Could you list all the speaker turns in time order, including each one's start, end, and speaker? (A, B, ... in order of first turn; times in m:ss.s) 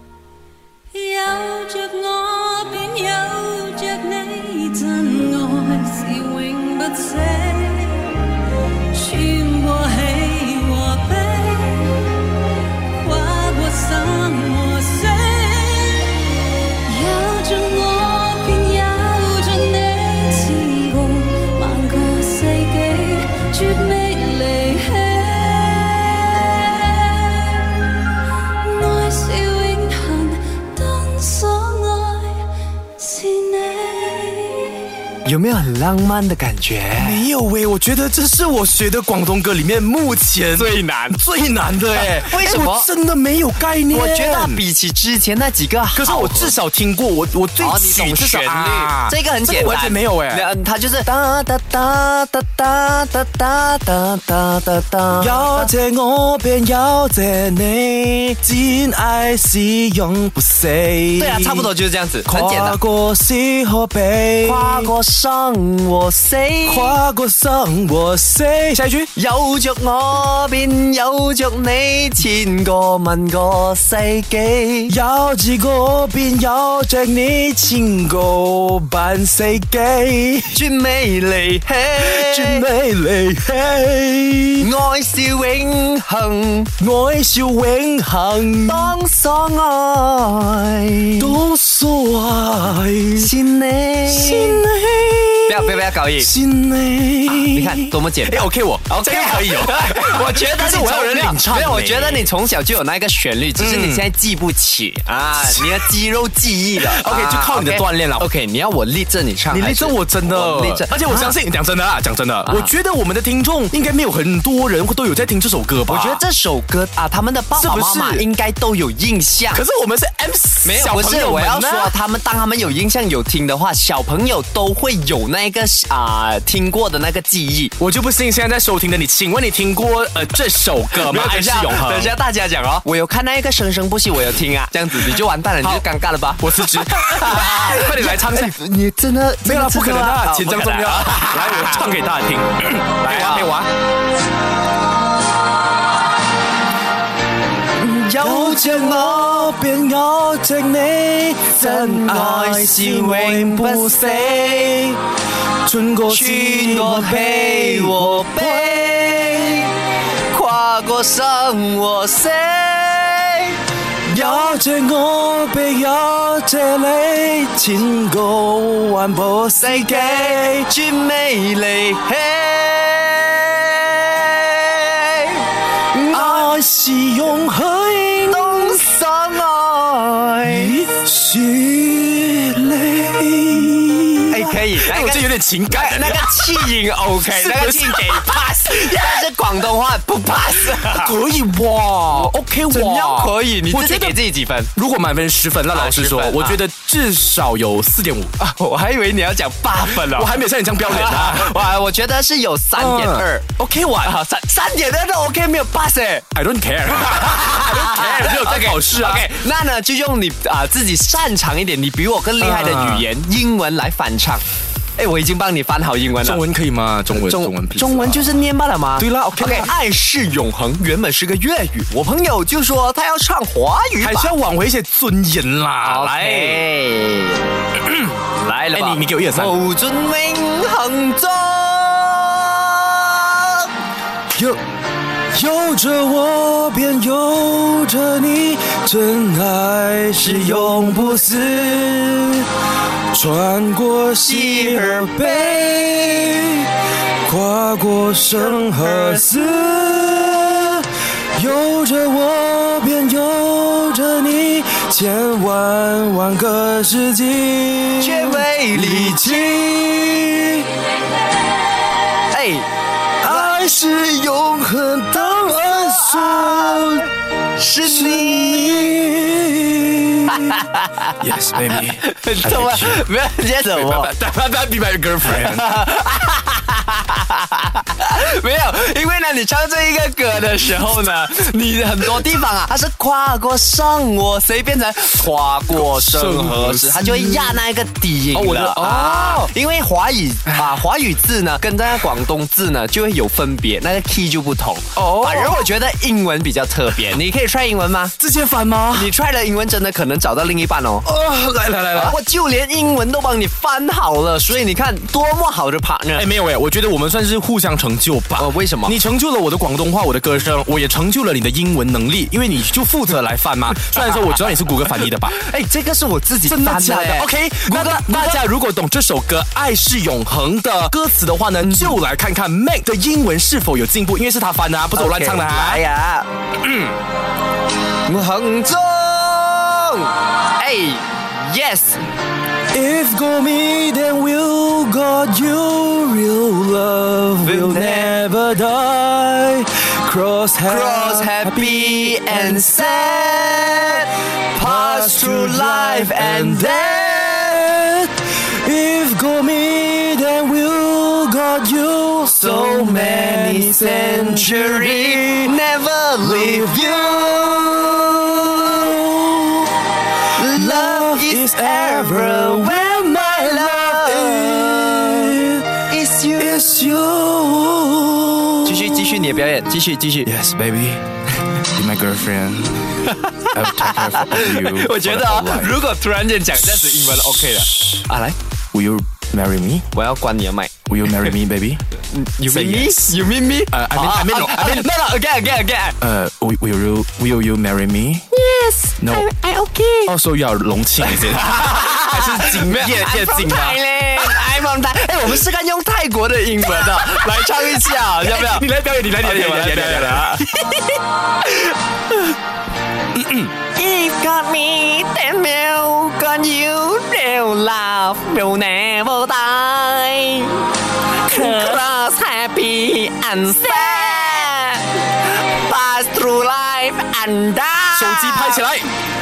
0:00.9-0:08.3 A
0:08.9-0:12.2 A
0:12.8-0:27.7 A
0:28.6-0:35.0 A
0:35.2-0:37.2 B
0:37.0-0:44.6 C
0:40.6-0:41.2 B
0:41.9-0:42.9 B
0:43.9-0:46.6 B
0:46.0-0:50.5 C
0:47.6-0:55.7 B
0:55.2-1:01.7 C
1:01.2-1:02.8 B
1:02.3-1:04.9 C
1:04.4-1:07.0 B
1:06.7-1:09.1 C
1:09.2-1:15.0 B
1:14.9-1:20.6 C
1:20.5-1:22.7 B
1:22.0-1:24.7 C
1:24.6-1:26.7 B
1:26.8-1:29.0 C
1:28.6-1:31.4 B
1:31.2-1:33.3 C
1:33.2-1:34.6 B
1:34.1-1:42.3 C
1:35.5-1:36.3 B
1:37.3-1:51.4 B
1:43.6-1:44.0 C
1:45.4-1:45.9 C
1:46.8-1:48.3 C
1:49.5-1:56.2 C
1:52.4-1:52.7 B
1:55.9-1:59.6 B
1:57.6-1:58.2 C
1:59.5-2:01.9 C
2:00.6-2:07.8 B
2:07.8-2:12.2 C
2:10.9-2:21.8 B
2:15.6-2:18.6 C
2:19.4-2:23.7 C
2:23.0-2:23.5 B
2:27.7-2:29.6 B
2:28.2-2:35.0 C
2:31.5-2:35.0 B
2:35.6-2:39.6 C
2:36.1-2:39.7 B
2:40.3-2:43.6 B
2:44.1-2:50.7 C
2:49.6-2:56.5 B
2:56.1-2:58.8 C
2:58.3-3:00.8 B
3:00.4-3:09.3 C
3:04.3-3:11.2 B
3:10.8-3:14.2 C
3:12.1-3:14.7 B
3:14.8-3:18.3 C
3:15.7-3:16.6 B
3:18.4-3:26.3 B
3:19.9-3:21.6 C
3:22.8-3:24.2 C
3:26.3-3:29.4 C
3:27.2-3:34.4 B
3:32.4-3:33.1 C
3:35.0-3:36.4 B
3:36.2-3:38.3 C
3:37.1-3:44.3 B
3:39.0-3:39.7 C
3:44.0-3:46.6 C
3:45.8-3:47.5 B
3:47.8-3:48.2 C
3:48.2-3:53.7 B
3:48.7-3:49.6 C
3:54.3-3:54.6 C
3:55.3-4:02.5 C
4:00.2-4:00.9 B
4:03.1-4:06.7 C
4:04.2-4:06.4 B
4:07.2-4:20.7 C
4:08.5-4:09.2 B
4:18.0-4:19.5 B
4:22.3-4:22.7 B
4:23.2-4:27.1 C
4:23.2-4:23.5 B
4:26.0-4:26.8 B
4:27.6-4:29.0 B
4:27.8-4:30.6 C
4:30.3-4:34.1 B
4:31.2-4:33.0 C
4:33.7-4:35.7 C
4:35.3-4:58.2 B
4:45.7-4:47.6 C
4:48.3-4:49.5 C
4:55.0-4:55.7 C
4:58.2-4:59.1 C
4:58.9-5:01.1 B
5:01.0-5:02.2 C
5:01.9-5:06.3 B
5:06.2-5:15.4 C
5:08.4-5:09.0 B
5:15.4-5:18.4 B
5:16.5-5:25.8 C
5:21.6-5:22.0 B
5:24.9-5:26.3 B
5:26.6-5:27.0 C
5:28.1-5:32.0 B
5:32.7-5:44.0 C
5:37.4-5:38.2 B
5:40.6-5:47.7 B
5:44.5-5:55.6 C
5:52.4-5:59.0 B
5:56.2-5:59.7 C
6:00.3-6:06.7 B
6:00.4-6:05.8 C
6:06.4-6:09.3 C
6:08.6-6:10.3 B
6:10.2-6:15.8 C
6:13.0-6:18.4 B
6:18.7-6:19.9 C
6:19.9-6:21.3 B
6:20.9-6:21.8 C
6:22.0-6:26.0 B
6:22.5-6:23.2 C
6:23.7-6:24.9 C
6:26.0-6:28.2 C
6:28.3-6:30.1 B
6:29.0-6:29.3 C
6:30.0-6:34.4 C
6:31.0-6:40.8 B
6:37.1-6:40.5 C
6:43.1-6:43.5 C
6:43.7-6:50.7 B
6:51.2-6:58.6 B
6:51.3-6:51.8 C
6:57.9-6:58.9 C